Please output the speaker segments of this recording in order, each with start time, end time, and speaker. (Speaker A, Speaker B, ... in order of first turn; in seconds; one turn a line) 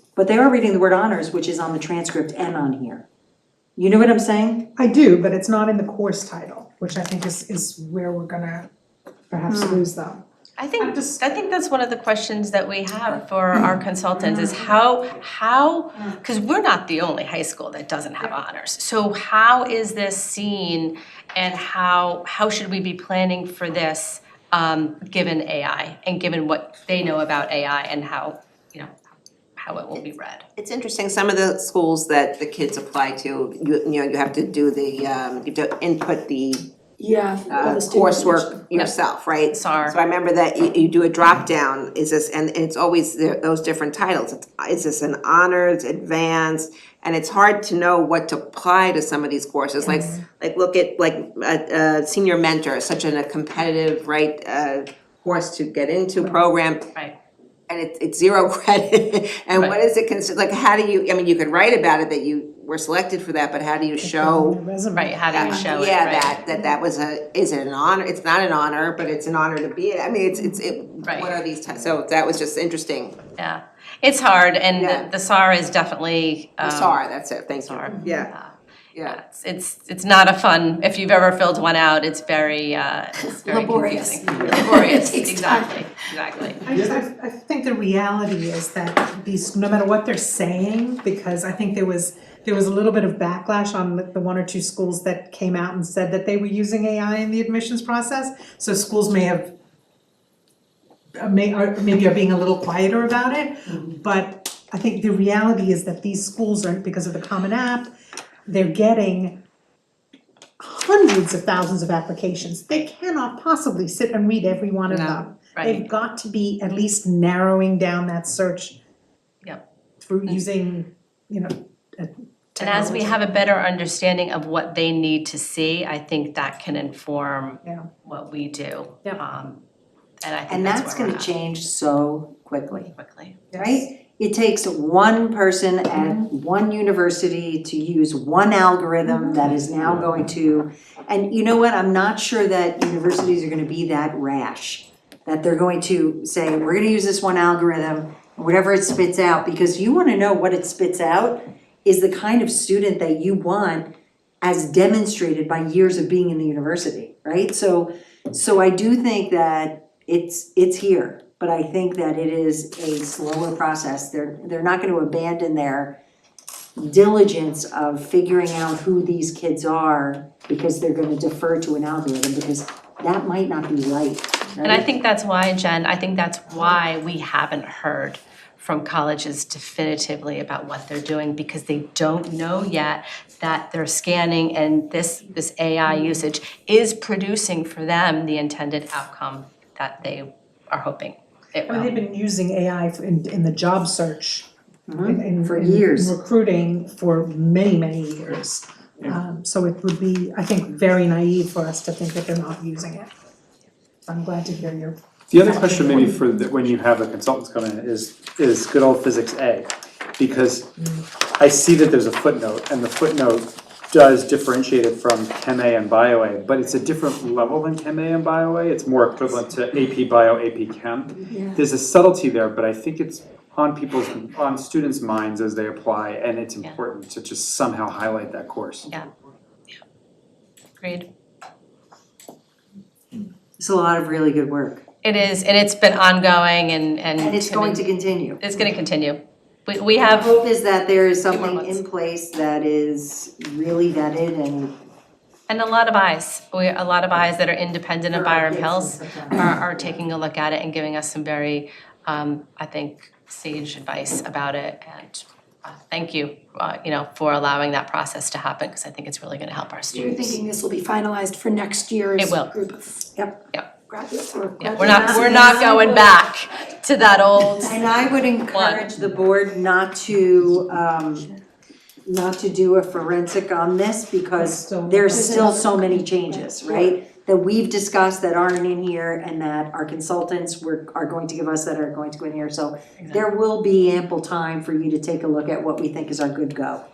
Speaker A: 0.2-3.1
Speaker A: 3.8-4.7
Speaker B: 4.8-8.7
Speaker B: 9.3-10.2
Speaker C: 10.6-28.9
Speaker B: 10.8-11.2
Speaker A: 14.2-14.6
Speaker C: 29.6-30.4
Speaker D: 30.6-36.7
Speaker E: 37.0-38.9
Speaker D: 37.5-56.9
Speaker C: 39.5-40.0
Speaker B: 49.9-50.2
Speaker D: 57.7-64.6
Speaker B: 64.0-65.2
Speaker C: 64.9-66.4
Speaker D: 65.3-73.2
Speaker C: 71.0-71.4
Speaker C: 73.4-77.0
Speaker D: 74.8-75.1
Speaker D: 76.6-78.3
Speaker C: 77.5-86.6
Speaker E: 83.3-85.8
Speaker B: 86.7-99.5
Speaker B: 101.2-107.9
Speaker B: 108.5-109.4
Speaker B: 110.6-118.8
Speaker D: 114.9-115.2
Speaker C: 115.5-115.8
Speaker B: 120.0-123.2
Speaker C: 122.6-129.6
Speaker C: 130.2-131.3
Speaker A: 130.5-132.9
Speaker C: 132.7-133.6
Speaker A: 133.6-153.9
Speaker A: 154.4-166.0
Speaker A: 166.8-174.9
Speaker C: 174.6-192.0
Speaker B: 191.7-194.5
Speaker A: 194.9-196.2
Speaker B: 195.0-203.1
Speaker B: 204.1-206.1
Speaker F: 205.3-210.7
Speaker F: 211.4-228.9
Speaker E: 221.3-221.6
Speaker C: 230.8-231.1
Speaker A: 233.6-234.8
Speaker C: 235.0-237.9
Speaker A: 237.2-238.4
Speaker C: 238.4-240.4
Speaker A: 240.0-244.8
Speaker C: 241.3-241.8
Speaker C: 245.5-260.4
Speaker A: 248.1-250.0
Speaker E: 259.9-263.1
Speaker C: 262.2-262.5
Speaker E: 263.9-266.1
Speaker C: 264.6-267.8
Speaker A: 264.8-265.9
Speaker A: 267.6-271.3
Speaker C: 268.5-268.9
Speaker A: 272.1-286.9
Speaker B: 274.4-275.7
Speaker E: 275.1-276.9